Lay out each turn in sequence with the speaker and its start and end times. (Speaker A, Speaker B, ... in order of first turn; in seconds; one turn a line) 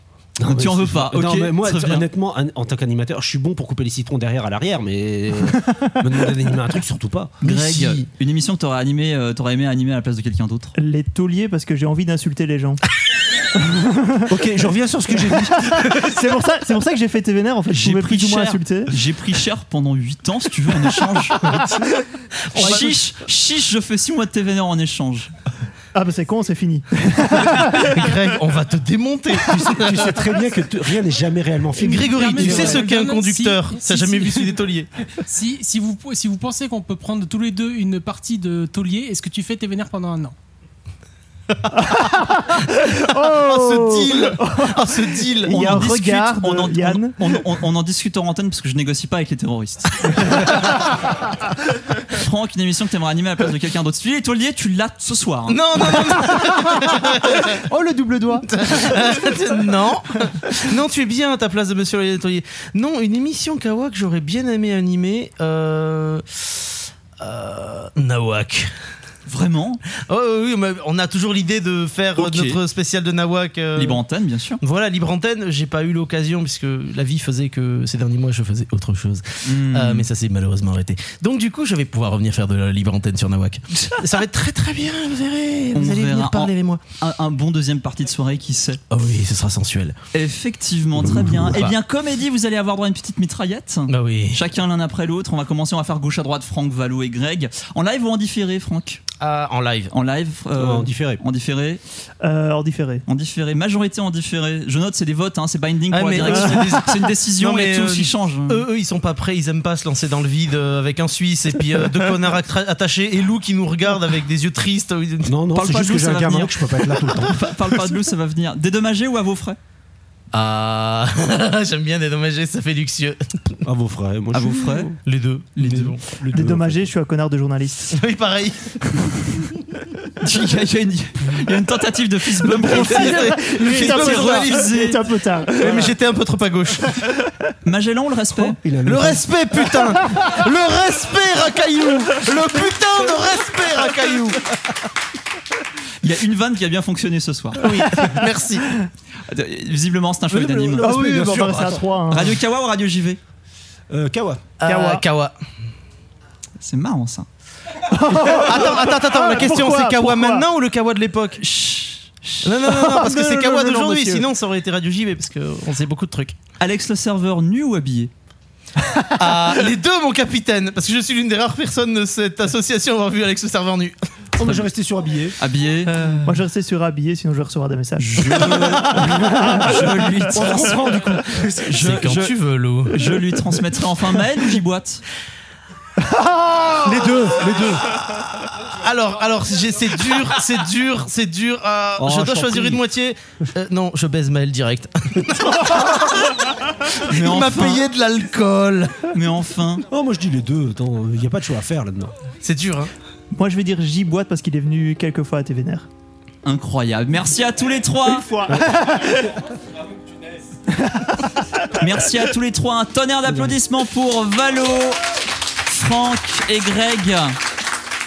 Speaker A: 0.4-7.3
Speaker B: 0.4-2.1
Speaker C: 7.4-8.0
Speaker B: 7.4-10.7
Speaker D: 10.8-12.8
Speaker D: 13.6-14.3
Speaker A: 14.3-15.8
Speaker D: 15.3-18.9
Speaker B: 17.7-21.4
Speaker B: 22.5-25.3
Speaker C: 22.5-22.9
Speaker D: 25.9-28.0
Speaker C: 27.8-30.2
Speaker A: 29.7-32.8
Speaker C: 31.8-34.9
Speaker E: 31.8-40.4
Speaker D: 41.7-47.2
Speaker C: 42.8-45.7
Speaker B: 45.5-50.9
Speaker D: 50.3-50.6
Speaker B: 52.1-55.6
Speaker C: 55.5-57.5
Speaker D: 56.1-59.0
Speaker C: 58.5-68.7
Speaker B: 69.3-69.8
Speaker C: 69.9-74.0
Speaker B: 72.2-72.6
Speaker B: 73.7-74.6
Speaker C: 74.6-86.8
Speaker B: 79.4-80.1
Speaker B: 85.7-88.8
Speaker C: 88.9-90.0
Speaker B: 90.1-99.0
Speaker A: 91.0-91.8
Speaker C: 93.9-94.4
Speaker C: 99.2-99.9
Speaker B: 99.9-101.8
Speaker A: 100.5-101.2
Speaker D: 102.2-103.0
Speaker B: 103.1-108.6
Speaker C: 105.9-115.3
Speaker A: 115.2-117.4
Speaker B: 115.5-119.6
Speaker C: 120.3-123.6
Speaker A: 123.6-124.9
Speaker B: 124.3-124.9
Speaker C: 125.0-126.0
Speaker A: 125.6-126.9
Speaker B: 125.6-125.9
Speaker D: 126.3-128.0
Speaker C: 127.9-128.8
Speaker B: 130.2-135.0
Speaker C: 132.5-135.0
Speaker D: 132.7-135.9
Speaker C: 135.6-137.0
Speaker B: 137.6-138.6
Speaker A: 138.6-139.3
Speaker C: 138.8-144.5
Speaker D: 140.0-140.3
Speaker B: 146.0-147.8
Speaker C: 147.6-148.7
Speaker D: 148.0-148.7
Speaker B: 149.3-153.2
Speaker D: 150.3-152.3
Speaker A: 150.6-151.9
Speaker A: 153.9-154.4
Speaker C: 154.6-155.3
Speaker D: 154.7-155.0
Speaker B: 156.6-157.2
Speaker D: 157.8-160.5
Speaker C: 158.4-161.4
Speaker B: 161.4-162.4
Speaker C: 162.4-166.3
Speaker D: 162.6-164.2
Speaker B: 166.6-168.1
Speaker D: 168.9-169.4
Speaker C: 169.2-174.5
Speaker A: 174.4-175.4
Speaker B: 175.4-175.9
Speaker C: 175.9-176.3
Speaker D: 176.2-179.7
Speaker A: 178.0-179.8
Speaker B: 178.9-182.3
Speaker A: 180.3-181.8
Speaker D: 180.8-181.4
Speaker C: 181.7-183.0
Speaker B: 182.9-185.0
Speaker D: 186.2-186.7
Speaker A: 186.8-187.9
Speaker C: 187.6-196.4
Speaker A: 192.0-192.3
Speaker B: 192.0-192.8
Speaker C: 196.9-199.1
Speaker B: 197.0-197.8
Speaker B: 199.1-199.8
Speaker A: 199.9-202.2
Speaker C: 202.4-202.9
Speaker D: 203.3-205.9
Speaker B: 206.4-208.3
Speaker D: 208.1-209.3
Speaker D: 210.9-211.2
Speaker B: 211.8-215.0
Speaker A: 213.3-213.5
Speaker B: 215.7-217.3